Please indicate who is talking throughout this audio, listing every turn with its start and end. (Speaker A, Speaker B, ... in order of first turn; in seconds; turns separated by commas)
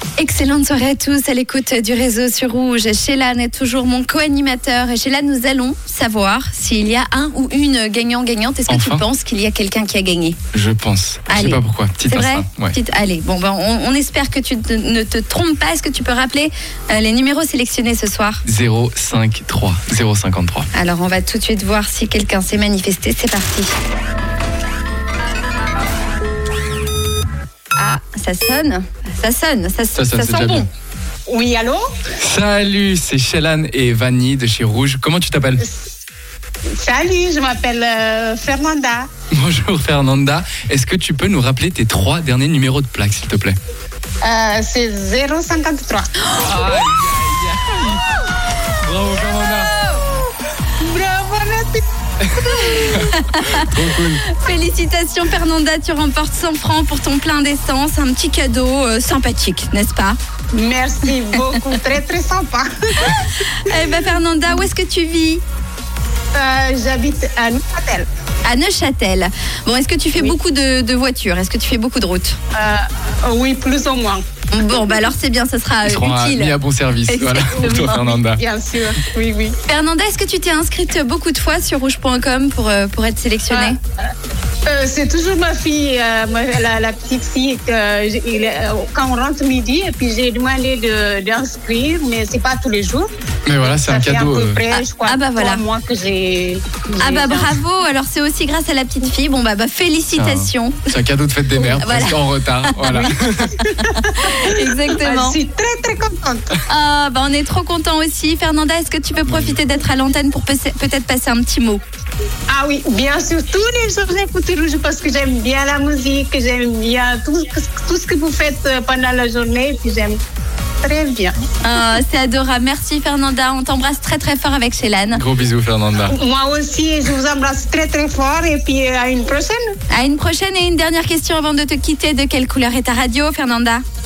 Speaker A: 0.2-10.4, Speaker B: 8.7-9.0, Speaker B: 10.5-12.7, Speaker A: 11.3-18.4, Speaker B: 18.4-20.7, Speaker A: 20.7-23.7, Speaker A: 27.7-30.7, Speaker B: 29.9-30.7, Speaker C: 31.3-31.8, Speaker B: 32.2-35.6, Speaker C: 36.8-39.1, Speaker B: 39.3-43.6, Speaker C: 44.2-46.1, Speaker A: 46.3-46.6, Speaker B: 46.3-48.0, Speaker B: 48.8-49.7, Speaker C: 50.8-51.8, Speaker B: 52.2-54.2, Speaker A: 52.5-60.2, Speaker C: 60.5-63.2, Speaker A: 63.0-65.4, Speaker C: 66.3-68.1, Speaker A: 68.4-72.4, Speaker C: 72.5-74.2, Speaker A: 74.5-78.0, Speaker B: 75.8-78.4, Speaker C: 77.5-79.6, Speaker A: 79.7-83.8, Speaker C: 83.5-83.8, Speaker C: 84.7-93.1, Speaker B: 93.5-94.6, Speaker C: 93.6-97.5, Speaker A: 94.7-95.6, Speaker A: 97.0-100.9, Speaker B: 100.2-103.6, Speaker A: 101.8-105.4, Speaker C: 102.8-106.6, Speaker A: 106.7-111.8, Speaker B: 109.2-109.5, Speaker C: 112.5-120.2, Speaker C: 120.8-121.3, Speaker A: 121.6-125.2, Speaker B: 125.1-126.2, Speaker C: 126.0-129.7, Speaker A: 129.9-133.8